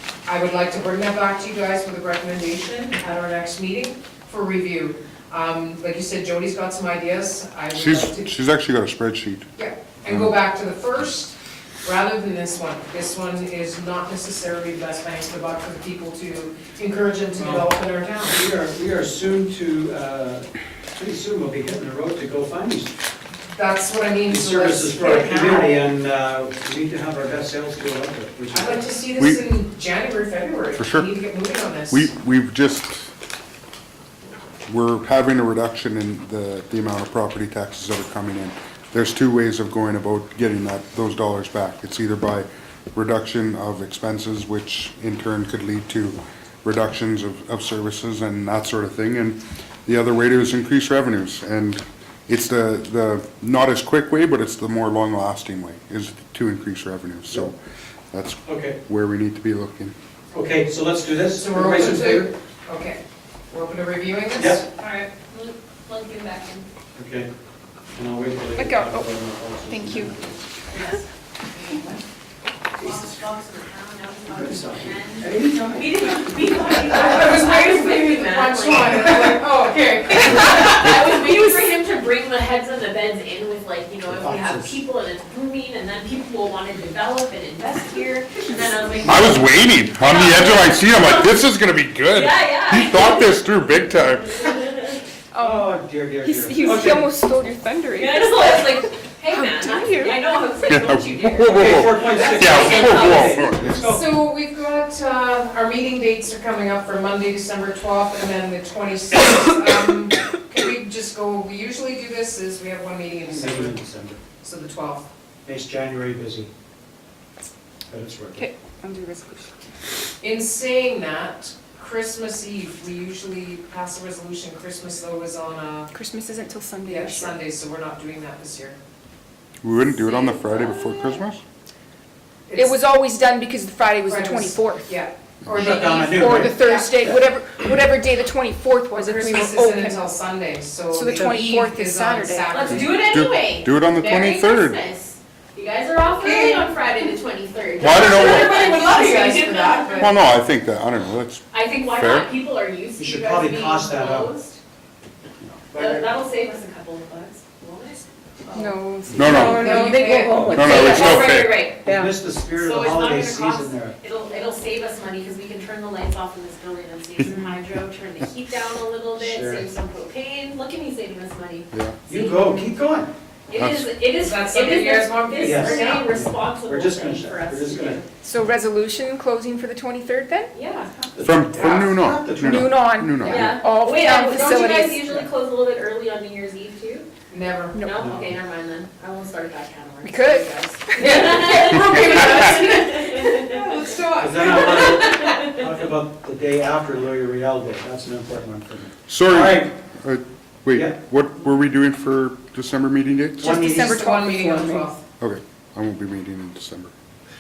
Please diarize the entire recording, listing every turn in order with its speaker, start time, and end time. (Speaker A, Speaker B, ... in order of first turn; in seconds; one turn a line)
Speaker A: 0.3-8.3
Speaker B: 7.7-9.5
Speaker A: 9.6-18.4
Speaker B: 10.1-10.3
Speaker C: 17.4-17.7
Speaker C: 18.2-22.9
Speaker A: 23.5-25.8
Speaker C: 24.3-28.9
Speaker A: 28.5-32.1
Speaker B: 29.2-29.4
Speaker B: 30.8-31.1
Speaker B: 31.9-33.1
Speaker B: 34.7-57.6
Speaker B: 58.1-59.9
Speaker C: 58.5-58.8
Speaker C: 60.3-62.3
Speaker A: 61.4-64.7
Speaker C: 64.4-64.6
Speaker D: 64.8-66.7
Speaker C: 67.0-67.3
Speaker C: 67.9-70.5
Speaker E: 68.6-69.1
Speaker E: 69.7-70.1
Speaker D: 70.7-72.0
Speaker D: 72.8-79.4
Speaker C: 74.3-76.7
Speaker A: 76.8-80.9
Speaker D: 80.0-91.4
Speaker C: 84.1-84.8
Speaker B: 89.0-94.5
Speaker D: 92.1-95.0
Speaker E: 95.3-100.2
Speaker C: 95.4-97.1
Speaker D: 97.9-103.5
Speaker B: 100.7-103.9
Speaker C: 101.5-104.2
Speaker A: 103.8-113.8
Speaker C: 113.3-114.2
Speaker A: 114.4-115.1
Speaker C: 115.5-116.5
Speaker C: 117.9-118.5
Speaker E: 118.3-119.5
Speaker A: 120.2-125.9
Speaker E: 125.9-127.4
Speaker A: 126.9-128.8
Speaker B: 129.6-131.4
Speaker E: 130.0-131.2
Speaker A: 132.5-132.8
Speaker E: 132.6-134.9
Speaker A: 134.1-137.0
Speaker C: 135.5-137.2
Speaker E: 135.6-140.0
Speaker A: 138.9-143.0
Speaker E: 140.9-142.6
Speaker D: 142.5-150.1
Speaker B: 142.7-144.8
Speaker A: 146.2-146.7
Speaker B: 147.8-148.7
Speaker A: 147.9-150.2
Speaker B: 149.9-152.3
Speaker D: 151.5-154.6
Speaker C: 153.0-154.3
Speaker C: 155.7-156.1
Speaker D: 155.7-158.8
Speaker E: 158.5-162.1
Speaker C: 159.1-159.6
Speaker B: 159.1-159.9
Speaker A: 159.3-160.5
Speaker C: 160.2-161.2
Speaker B: 160.4-161.7
Speaker D: 160.4-161.8
Speaker C: 161.8-163.9
Speaker D: 162.5-172.6
Speaker C: 169.2-169.7
Speaker C: 172.1-173.1
Speaker D: 173.5-178.1
Speaker B: 173.6-173.9
Speaker A: 174.2-176.1
Speaker C: 175.4-178.0
Speaker E: 178.2-180.5
Speaker D: 180.5-180.9
Speaker C: 181.1-182.7
Speaker B: 181.2-183.5
Speaker E: 182.4-185.1
Speaker D: 183.2-187.1
Speaker A: 183.2-183.5
Speaker A: 187.3-187.8
Speaker D: 187.8-195.6
Speaker C: 188.0-188.3
Speaker E: 190.0-191.7
Speaker A: 191.0-195.2
Speaker B: 191.9-192.3
Speaker E: 192.3-192.6
Speaker C: 194.2-199.7
Speaker B: 199.1-203.8
Speaker A: 203.4-205.0
Speaker E: 203.4-204.9
Speaker B: 205.2-206.9